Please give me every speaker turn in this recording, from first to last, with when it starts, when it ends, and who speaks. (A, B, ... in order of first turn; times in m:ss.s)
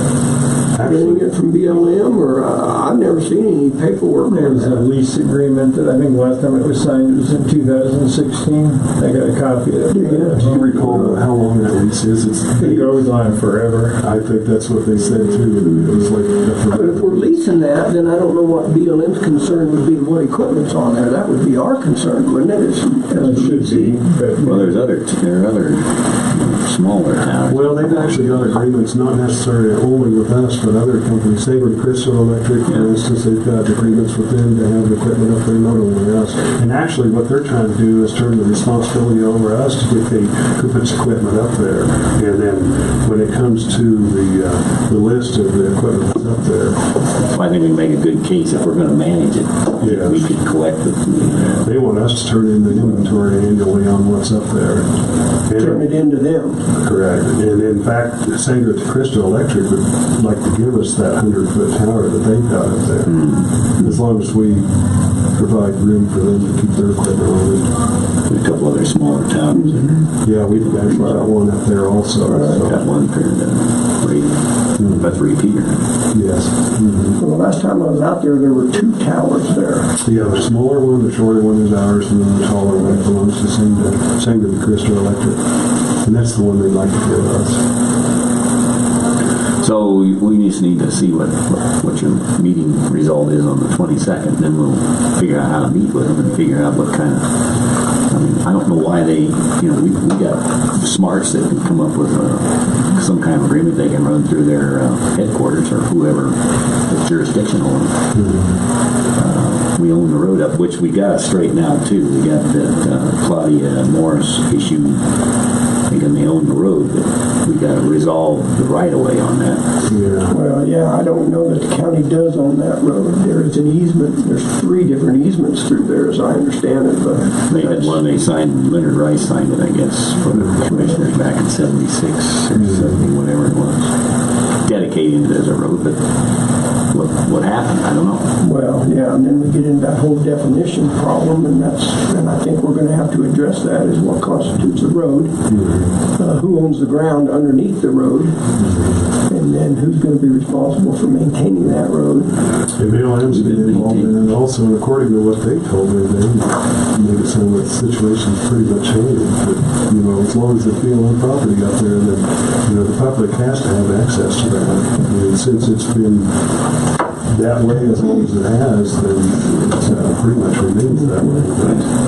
0:00.7-0:01.4 A
0:00.8-0:04.8 B
0:04.2-0:11.2 C
0:09.9-0:10.4 B
0:10.3-0:13.0 A
0:12.6-0:14.0 C
0:14.0-0:17.4 A
0:16.7-0:24.0 B
0:23.1-0:24.9 C
0:24.4-0:28.6 D
0:27.5-0:46.9 A
0:47.3-0:51.7 D
0:49.8-0:50.3 A
0:51.6-0:54.9 A
0:55.4-0:55.9 A
0:55.6-0:56.6 B
0:56.8-1:03.2 A
1:03.1-1:03.5 D
1:03.8-1:04.7 A
1:05.3-1:07.7 A
1:08.3-1:10.1 D
1:10.2-1:12.8 A
1:10.9-1:11.3 B
1:12.2-1:12.7 B
1:12.6-1:15.9 D
1:14.8-1:15.1 A
1:16.1-1:17.2 A
1:17.2-1:20.0 B
1:20.0-1:25.4 A
1:26.0-1:27.6 A
1:29.6-1:48.0 D
1:48.1-1:48.6 A
1:49.1-1:55.0 D
1:55.9-1:59.8 D
1:59.8-2:00.4 A
2:00.3-2:08.0 B
2:07.5-2:13.9 D
2:14.6-2:16.0 D
2:16.9-2:18.3 D
2:18.4-2:25.3 B
2:25.5-2:25.9 A
2:26.1-2:28.4 B
2:28.6-2:29.0 A
2:29.3-2:32.4 B
2:32.7-2:46.5 A
2:33.2-2:34.3 D
2:47.3-2:51.9 A
2:51.6-2:51.9 D